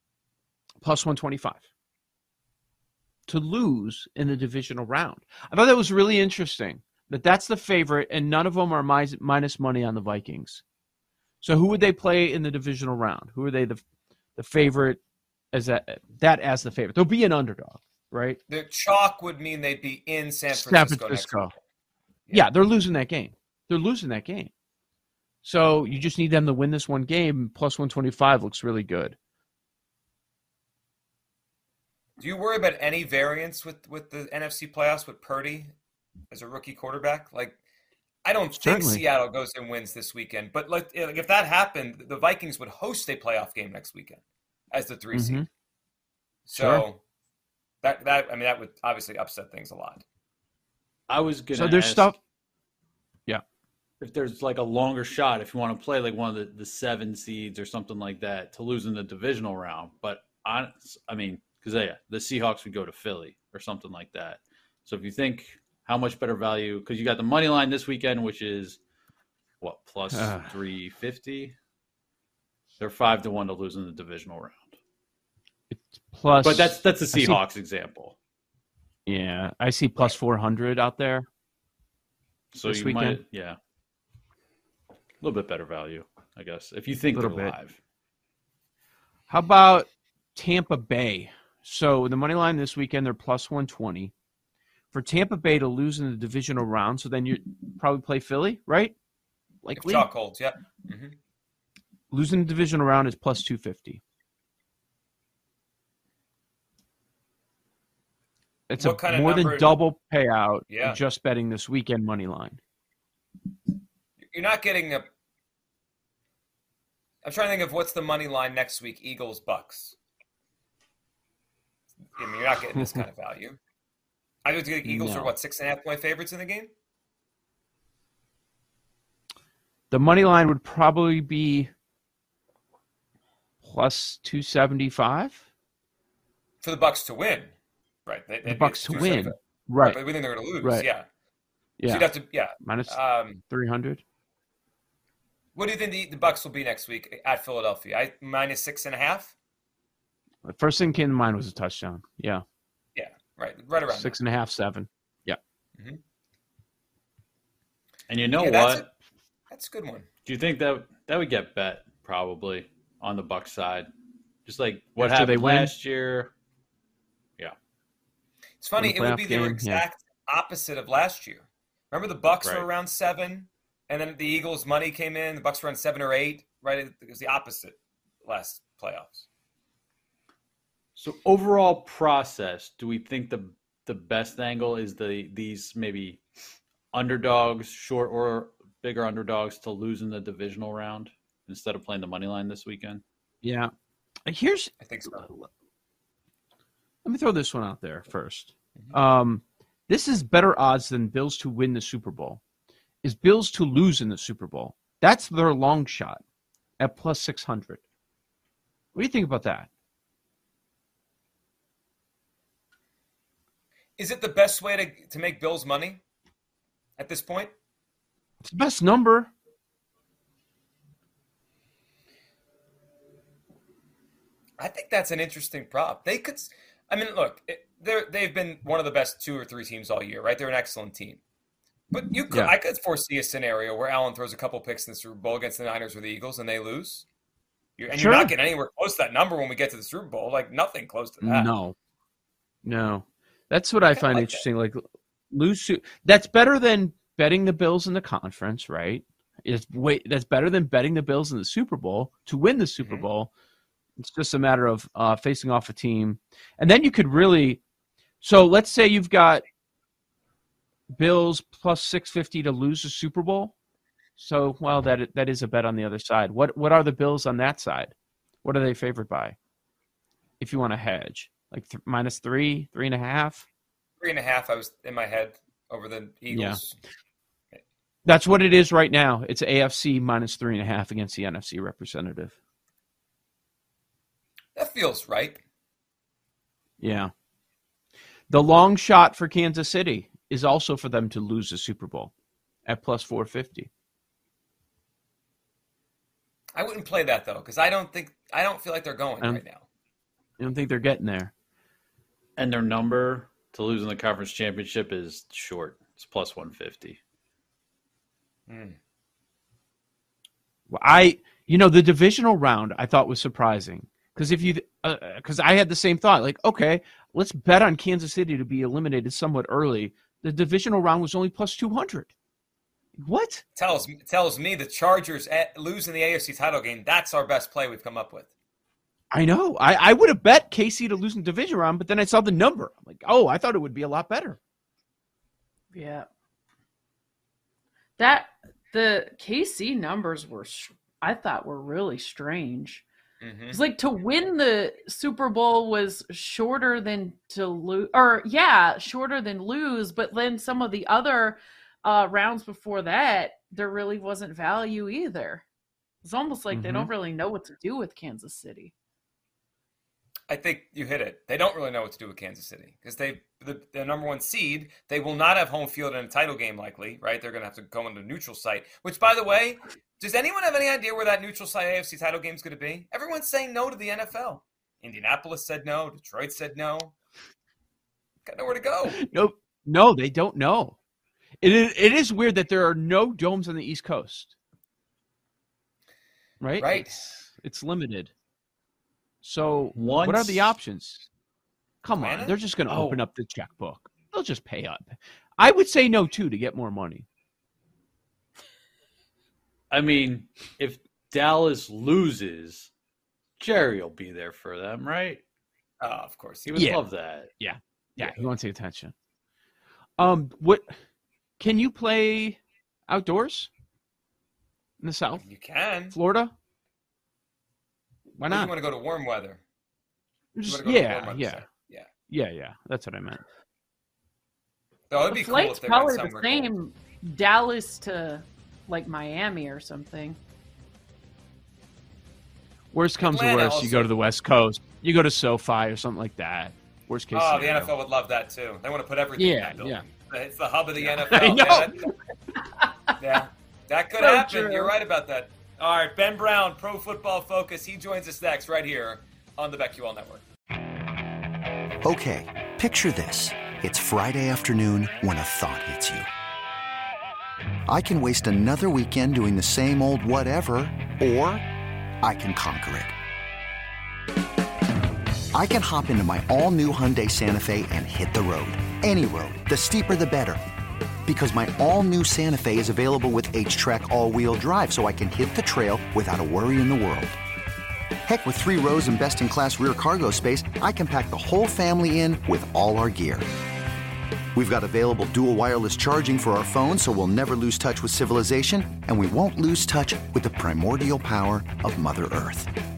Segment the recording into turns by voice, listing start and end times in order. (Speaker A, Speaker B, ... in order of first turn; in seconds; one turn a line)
Speaker A: 0.8-1.6
Speaker A: 3.3-10.6
Speaker A: 11.4-13.8
Speaker A: 14.4-15.0
Speaker A: 15.5-18.4
Speaker B: 18.5-21.6
Speaker A: 20.5-21.5
Speaker A: 22.3-24.5
Speaker A: 25.4-29.2
Speaker B: 32.2-35.7
Speaker B: 36.3-37.6
Speaker B: 38.2-44.2
Speaker A: 38.5-39.0
Speaker B: 44.7-45.5
Speaker A: 45.1-45.5
Speaker B: 46.5-47.0
Speaker A: 46.5-46.9
Speaker B: 47.8-50.0
Speaker C: 51.1-52.1
Speaker A: 51.5-52.2
Speaker C: 54.0-68.8
Speaker C: 69.6-71.5
Speaker A: 70.1-70.5
Speaker C: 72.8-74.8
Speaker A: 75.7-77.4
Speaker C: 76.4-78.2
Speaker A: 79.1-81.3
Speaker C: 82.5-83.6
Speaker A: 82.6-83.2
Speaker C: 85.2-87.8
Speaker A: 87.1-87.5
Speaker A: 89.3-94.1
Speaker A: 94.9-98.9
Speaker A: 99.6-100.1
Speaker B: 99.8-101.2
Speaker A: 102.1-104.0
Speaker A: 108.7-112.6
Speaker B: 108.8-109.8
Speaker B: 110.7-111.0
Speaker B: 114.2-115.1
Speaker B: 117.2-120.0
Speaker B: 122.2-123.6
Speaker B: 124.5-126.7
Speaker A: 124.8-125.3
Speaker A: 129.9-131.7
Speaker A: 133.6-135.4
Speaker B: 136.6-137.5
Speaker B: 138.1-141.1
Speaker A: 138.5-140.9
Speaker A: 141.8-144.0
Speaker B: 141.9-143.4
Speaker B: 145.6-149.3
Speaker A: 150.4-152.4
Speaker B: 153.0-154.2
Speaker A: 153.8-155.4
Speaker C: 158.1-158.9
Speaker B: 158.3-158.9
Speaker B: 159.5-160.1
Speaker C: 160.2-163.9
Speaker C: 164.5-166.3
Speaker A: 165.0-165.7
Speaker B: 168.6-179.3
Speaker A: 168.8-169.8
Speaker C: 180.9-186.2
Speaker C: 186.9-193.0
Speaker A: 193.4-193.7
Speaker A: 194.3-195.5
Speaker B: 194.8-195.3
Speaker A: 197.0-202.4
Speaker A: 203.0-206.2
Speaker A: 206.8-207.8
Speaker A: 208.9-209.7
Speaker B: 214.0-216.0
Speaker B: 217.0-217.5
Speaker A: 218.4-219.3
Speaker B: 224.6-231.2
Speaker B: 231.9-237.1
Speaker B: 237.8-241.5
Speaker A: 237.9-238.3
Speaker A: 241.2-241.8
Speaker A: 242.6-253.3
Speaker B: 243.9-244.4
Speaker B: 252.8-253.1
Speaker A: 254.0-257.6
Speaker A: 258.2-259.4
Speaker A: 260.9-263.5
Speaker A: 264.2-269.4
Speaker A: 270.4-273.5
Speaker B: 274.0-276.8
Speaker A: 276.3-276.6
Speaker A: 278.1-282.4
Speaker B: 284.6-285.4
Speaker A: 286.8-287.1
Speaker A: 288.3-292.1
Speaker A: 292.7-293.7
Speaker B: 296.6-299.6
Speaker A: 300.4-301.3
Speaker C: 302.4-307.0
Speaker B: 308.5-308.8
Speaker A: 310.7-322.1
Speaker A: 323.0-323.4
Speaker B: 323.6-328.3
Speaker A: 329.1-334.4
Speaker D: 335.7-336.1
Speaker D: 338.0-342.9
Speaker B: 343.2-343.6
Speaker D: 343.5-355.4
Speaker D: 356.0-358.7
Speaker A: 356.5-356.9
Speaker B: 360.3-376.9
Speaker B: 378.3-379.0
Speaker A: 378.9-380.8
Speaker A: 381.4-384.3
Speaker A: 386.4-388.1
Speaker B: 386.6-386.9
Speaker A: 389.2-391.1
Speaker C: 389.8-390.5
Speaker A: 391.8-397.1
Speaker B: 392.0-392.4
Speaker C: 392.7-393.0
Speaker C: 399.7-402.7
Speaker C: 403.4-405.2
Speaker B: 405.8-406.6
Speaker C: 406.5-407.3
Speaker A: 406.6-406.8
Speaker A: 407.4-408.9
Speaker A: 410.0-410.7
Speaker A: 411.4-413.5
Speaker A: 414.8-415.2
Speaker B: 415.2-415.9
Speaker A: 415.9-416.3
Speaker A: 418.1-418.5
Speaker B: 418.3-419.4
Speaker A: 420.4-421.5
Speaker B: 420.4-421.9
Speaker A: 422.1-423.2
Speaker B: 424.9-426.5
Speaker D: 425.1-430.2
Speaker A: 432.7-437.7
Speaker B: 433.0-433.9
Speaker B: 437.1-441.8
Speaker A: 439.2-439.9
Speaker A: 440.8-441.8
Speaker B: 443.0-450.2
Speaker D: 444.0-444.7
Speaker E: 451.8-456.1
Speaker E: 457.7-461.4
Speaker E: 462.0-462.9
Speaker E: 465.3-470.4
Speaker E: 471.1-477.1
Speaker E: 478.1-483.2
Speaker E: 484.4-492.5